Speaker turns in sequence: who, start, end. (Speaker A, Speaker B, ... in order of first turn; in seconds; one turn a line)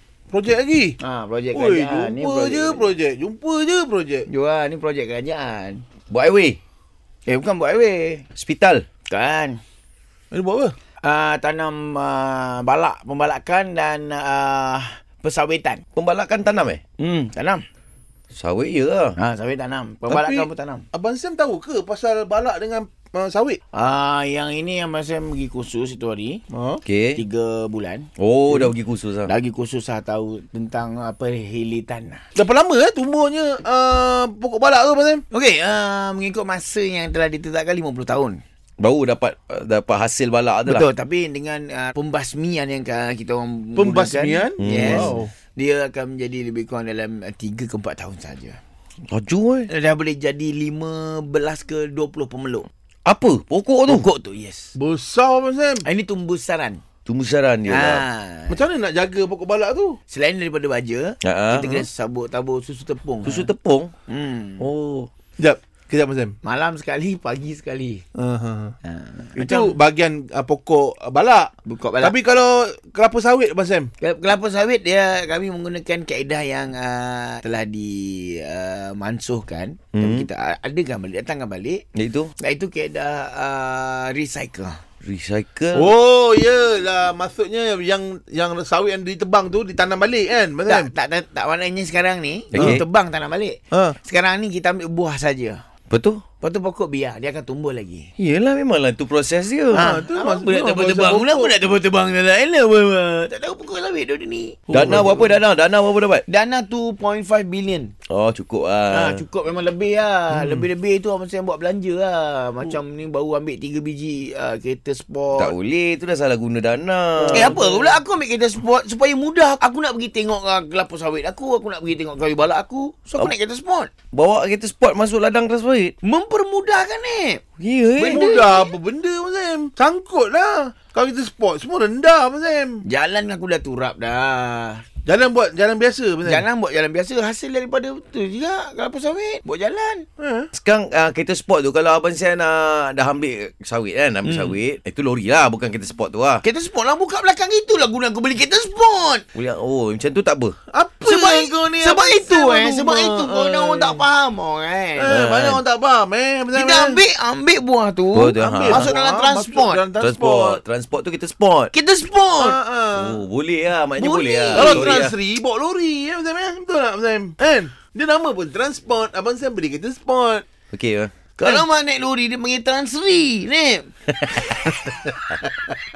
Speaker A: 0.3-1.0
Speaker B: 1.0-2.9
Speaker A: 1.5-4.2
Speaker B: 4.3-5.8
Speaker C: 6.1-6.6
Speaker B: 7.3-8.2
Speaker C: 8.3-8.8
Speaker B: 9.1-9.6
Speaker A: 10.3-10.7
Speaker B: 11.0-15.8
Speaker C: 15.9-16.8
Speaker B: 17.0-17.6
Speaker C: 18.3-19.1
Speaker B: 19.2-20.9
Speaker A: 20.1-23.6
Speaker B: 23.7-26.4
Speaker A: 26.5-26.8
Speaker C: 26.8-27.2
Speaker B: 27.1-28.7
Speaker C: 28.2-29.3
Speaker B: 29.2-32.2
Speaker A: 32.3-35.2
Speaker B: 35.3-38.4
Speaker C: 38.8-40.8
Speaker B: 40.6-48.6
Speaker A: 43.8-45.3
Speaker C: 44.6-45.1
Speaker C: 49.1-49.7
Speaker B: 49.7-52.7
Speaker C: 53.0-54.0
Speaker B: 53.9-54.7
Speaker A: 54.7-55.8
Speaker B: 55.8-56.8
Speaker C: 57.0-58.0
Speaker B: 57.7-58.6
Speaker A: 58.5-60.0
Speaker B: 60.1-63.5
Speaker C: 61.2-61.9
Speaker C: 63.2-63.9
Speaker B: 64.1-64.7
Speaker C: 64.6-65.1
Speaker A: 65.4-66.3
Speaker B: 66.4-68.0
Speaker A: 68.1-68.7
Speaker B: 68.8-69.7
Speaker A: 69.3-71.5
Speaker B: 71.6-72.1
Speaker A: 72.0-73.9
Speaker B: 74.0-81.8
Speaker C: 79.9-80.3
Speaker C: 81.9-82.3
Speaker B: 82.4-84.8
Speaker C: 85.0-85.9
Speaker A: 85.7-90.9
Speaker B: 90.7-95.6
Speaker C: 92.5-92.8
Speaker A: 92.5-92.8
Speaker A: 93.7-94.0
Speaker C: 95.9-96.2
Speaker B: 96.4-98.1
Speaker C: 98.2-100.0
Speaker A: 99.7-101.5
Speaker B: 99.7-105.3
Speaker A: 104.7-105.3
Speaker C: 104.7-106.2
Speaker B: 106.3-107.9
Speaker C: 108.1-109.2
Speaker B: 108.9-115.5
Speaker A: 110.3-110.7
Speaker C: 115.3-117.6
Speaker A: 117.2-118.0
Speaker B: 117.3-123.9
Speaker C: 124.1-125.9
Speaker B: 126.0-127.4
Speaker C: 127.6-128.3
Speaker B: 128.0-128.7
Speaker A: 128.0-132.8
Speaker B: 132.8-134.8
Speaker A: 135.0-136.4
Speaker B: 136.2-140.1
Speaker A: 140.2-140.5
Speaker C: 140.5-146.4
Speaker B: 144.2-144.6
Speaker B: 146.4-149.2
Speaker C: 149.3-150.6
Speaker A: 150.7-154.0
Speaker B: 151.0-155.2
Speaker A: 155.0-157.0
Speaker C: 155.1-155.6
Speaker B: 156.5-159.8
Speaker C: 158.1-158.9
Speaker A: 158.3-160.6
Speaker C: 160.0-161.7
Speaker B: 161.7-162.6
Speaker A: 162.4-163.2
Speaker C: 162.9-165.1
Speaker B: 164.0-165.0
Speaker A: 164.5-170.4
Speaker C: 170.7-171.1
Speaker B: 171.4-173.9
Speaker A: 174.6-175.1